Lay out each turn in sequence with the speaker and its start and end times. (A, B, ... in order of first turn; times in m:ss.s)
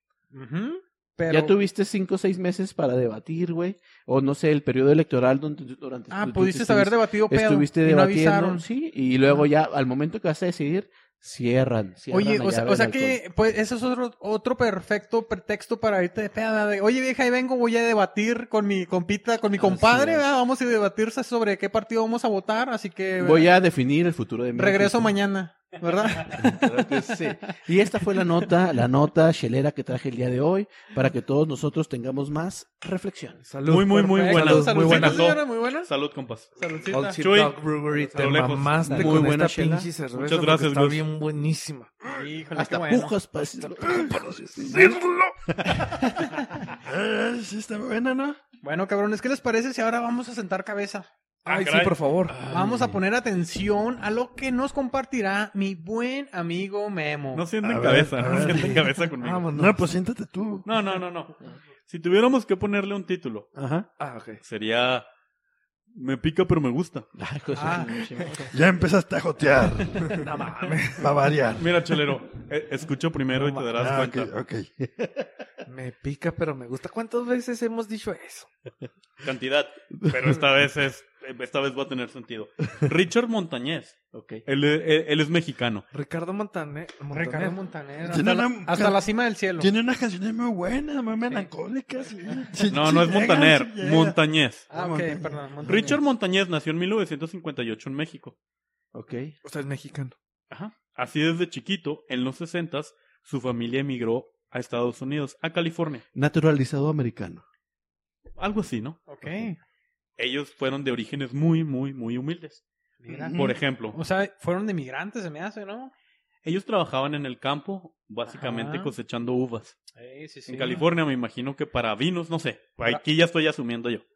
0:00.3-0:01.6 A
0:01.3-0:13.2 B
0:06.1-0:08.6 A
0:12.1-0:23.5 A
0:19.6-0:20.2 B
0:23.2-0:25.2 B
0:24.6-0:26.9 A
0:26.3-0:33.4 B
0:33.4-0:35.4 C
0:33.6-0:36.5 D
0:34.1-0:35.9 A
0:36.6-0:37.2 A
0:36.9-0:42.0 C
0:37.2-0:39.1 D
0:38.9-0:39.9 B
0:40.2-0:41.0 D
0:42.0-0:43.1 A
0:42.5-0:45.0 B
0:43.6-0:45.3 C
0:45.6-0:46.4 B
0:46.8-0:48.4 E
0:48.6-0:51.1 A
0:51.4-0:52.4 C
0:51.5-0:52.0 D
0:52.3-0:53.0 B
0:52.4-0:57.4 A
0:57.3-0:59.5 D
0:57.6-0:58.8 E
0:58.4-0:59.8 C
0:59.5-1:00.7 E
1:00.6-1:03.5 D
1:03.6-1:03.9 B
1:04.0-1:04.4 C
1:04.4-1:05.0 D
1:05.9-1:07.1 D
1:07.2-1:08.5 B
1:07.6-1:08.0 A
1:08.5-1:10.3 E
1:10.0-1:11.1 C
1:10.9-1:11.8 E
1:11.6-1:14.3 D
1:13.4-1:13.7 C
1:13.8-1:14.7 E
1:14.8-1:15.3 B
1:15.6-1:18.5 C
1:19.2-1:25.8 D
1:24.1-1:24.4 B
1:25.9-1:27.6 C
1:27.1-1:29.7 A
1:28.1-1:29.0 E
1:29.6-1:34.2 E
1:31.2-1:31.5 A
1:32.7-1:34.6 D
1:34.7-1:36.0 E
1:34.7-1:36.0 A
1:35.6-1:38.3 D
1:38.9-1:39.4 B
1:39.4-1:40.1 C
1:40.5-1:46.0 D
1:46.1-1:47.4 B
1:48.4-1:49.0 D
1:49.1-1:49.6 A
1:50.2-1:52.6 D
1:53.0-1:55.9 A
1:53.3-1:54.0 D
1:56.4-1:59.8 D
1:58.3-1:58.9 A
1:59.9-2:00.8 A
2:00.5-2:04.0 D